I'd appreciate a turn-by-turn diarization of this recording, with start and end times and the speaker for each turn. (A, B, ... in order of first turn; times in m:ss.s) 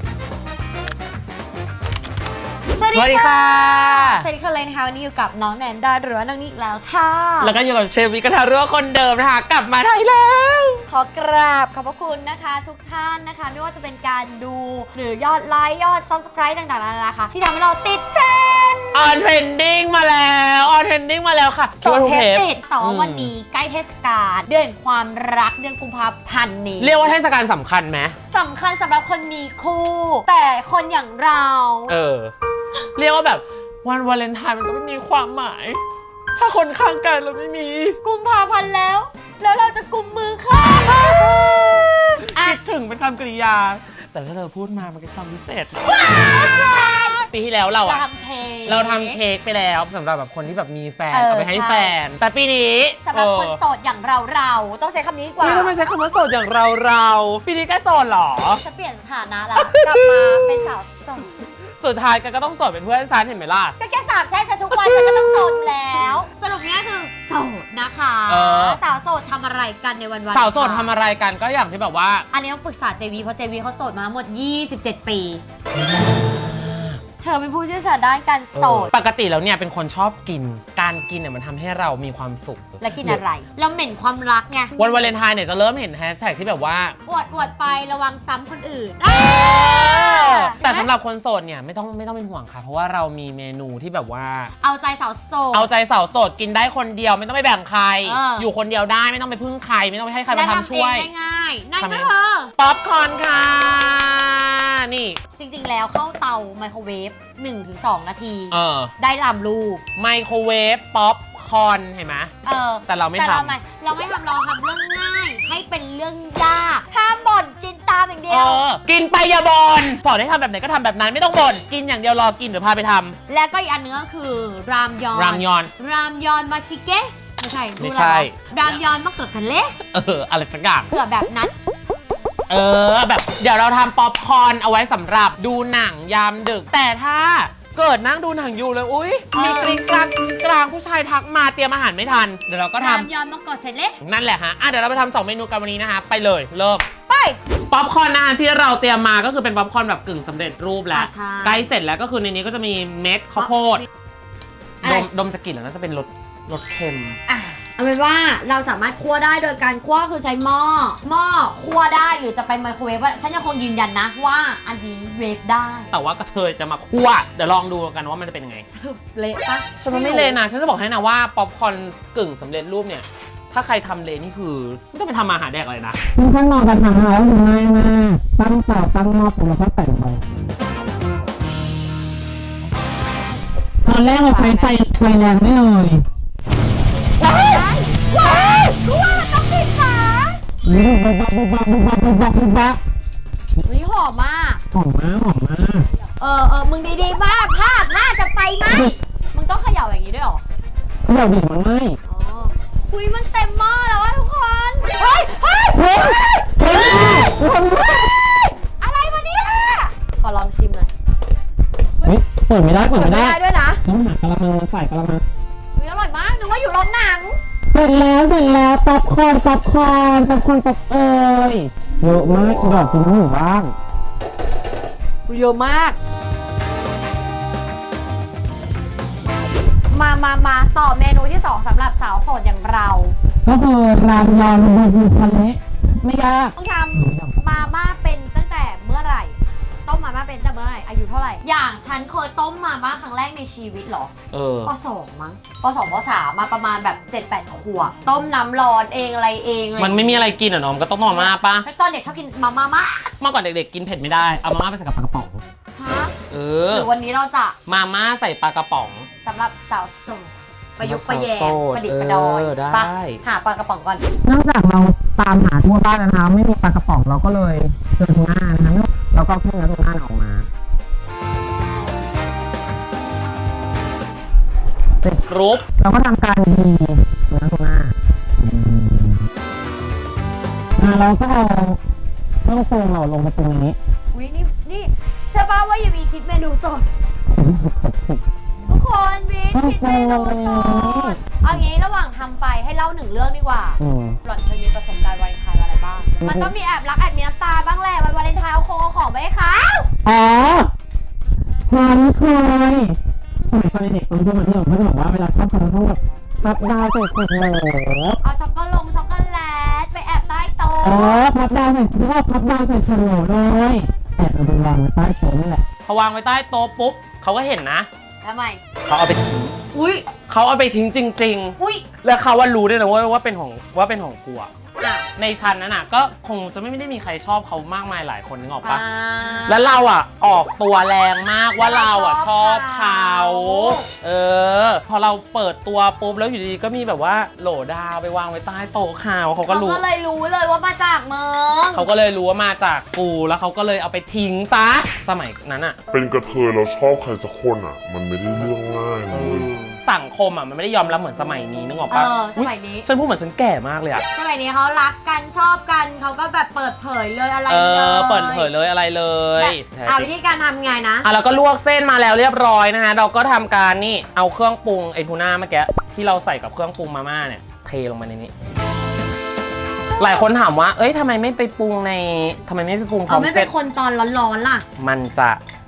0:02.7-0:07.6 A
0:02.9-0:04.3 B
0:07.4-0:10.9 B
0:10.9-0:19.2 A
0:18.9-0:23.3 B
0:21.8-0:27.1 A
0:26.8-0:28.2 B
0:28.3-0:32.0 A
0:31.9-0:32.3 B
0:33.0-0:35.8 B
0:36.4-0:38.0 B
0:38.0-0:42.5 A
0:42.3-0:46.7 B
0:45.9-0:47.3 A
0:47.3-0:48.0 B
0:47.8-0:49.2 A
0:48.7-0:53.6 B
0:51.1-0:52.0 A
0:53.0-0:55.7 A
0:55.4-0:58.6 B
0:58.6-1:01.4 A
0:59.6-1:00.7 B
1:01.8-1:03.8 B
1:03.8-1:11.0 A
1:04.7-1:05.5 B
1:08.3-1:08.8 B
1:10.3-1:12.3 B
1:12.3-1:15.4 A
1:15.7-1:17.0 B
1:17.2-1:18.9 A
1:18.6-1:23.2 B
1:22.8-1:24.8 A
1:24.8-1:27.0 B
1:27.1-1:30.9 A
1:29.1-1:34.5 B
1:34.6-1:35.7 A
1:35.5-1:41.1 B
1:38.0-1:38.5 A
1:40.3-1:42.5 A
1:41.8-1:45.2 B
1:45.4-1:49.8 A
1:48.5-1:48.9 B
1:50.0-1:52.3 B
1:52.4-1:58.6 A
1:52.9-1:53.6 B
1:58.3-2:03.2 B
2:03.3-2:09.8 A
2:05.1-2:05.7 B
2:07.8-2:08.6 B
2:09.9-2:10.9 B
2:10.9-2:11.6 A
2:12.5-2:23.1 B
2:19.3-2:19.8 A
2:22.8-2:24.0 A
2:24.0-2:26.8 B
2:27.1-2:27.4 A
2:27.7-2:33.8 B
2:30.9-2:31.7 A
2:33.4-2:33.9 A
2:34.8-2:35.1 A
2:34.8-2:37.2 B
2:37.3-2:45.9 A
2:45.9-2:48.7 B
2:48.7-2:50.4 A
2:49.8-2:56.0 B
2:56.2-3:00.2 C
3:03.8-3:06.0 C
3:03.9-3:04.9 A
3:04.6-3:05.2 B
3:07.2-3:10.4 A
3:07.2-3:07.6 B
3:10.6-3:12.8 C
3:13.6-3:14.6 A
3:14.7-3:15.9 C
3:14.8-3:15.7 B
3:16.2-3:20.4 A
3:21.1-3:22.0 C
3:21.5-3:21.9 B
3:22.0-3:30.9 A
3:25.8-3:28.0 C
3:26.8-3:27.7 B
3:32.0-3:35.2 B
3:32.1-3:32.5 C
3:32.8-3:33.8 A
3:33.9-3:35.0 C
3:35.8-3:37.4 A
3:37.8-3:43.7 B
3:37.8-3:41.3 C
3:42.0-3:43.5 C
3:45.3-3:46.0 A
3:49.9-3:53.2 A
3:53.5-3:56.3 C
3:53.5-3:54.7 B
3:55.3-3:56.5 B
3:56.5-4:04.1 A
4:04.3-4:04.7 B
4:04.7-4:10.3 A
4:09.8-4:11.7 B
4:11.1-4:13.1 A
4:13.2-4:15.4 B
4:15.8-4:16.1 A
4:16.3-4:16.9 B
4:16.7-4:17.6 A
4:17.7-4:19.1 B
4:19.2-4:24.0 A
4:20.8-4:23.2 B
4:24.3-4:26.2 B
4:24.3-4:30.3 C
4:26.8-4:30.5 B
4:35.1-4:35.8 B
4:35.8-4:37.9 C
4:38.5-4:39.1 C
4:40.8-4:41.8 C
4:42.4-4:43.8 C
4:44.1-4:46.9 A
4:48.6-4:59.9 A
4:49.5-4:51.2 C
5:00.1-5:00.7 C
5:01.7-5:03.0 C
5:03.5-5:08.2 C
5:08.2-5:11.2 A
5:10.8-5:15.6 C
5:15.8-5:17.9 B
5:18.2-5:18.6 A
5:18.8-5:19.6 B
5:19.7-5:20.1 A
5:20.3-5:24.5 B
5:21.6-5:21.9 A
5:24.8-5:25.1 A
5:25.2-5:28.8 B
5:28.6-5:29.7 A
5:29.4-5:39.8 B
5:31.6-5:33.9 A
5:39.5-5:41.9 A
5:41.7-5:45.8 B
5:45.9-5:49.5 D
5:49.1-5:54.0 B
5:51.9-5:52.9 A
5:54.1-5:58.5 A
5:57.5-6:00.1 B
5:59.4-6:01.1 A
6:01.0-6:08.3 B
6:10.0-6:13.5 B
6:13.1-6:14.6 A
6:14.8-6:15.4 B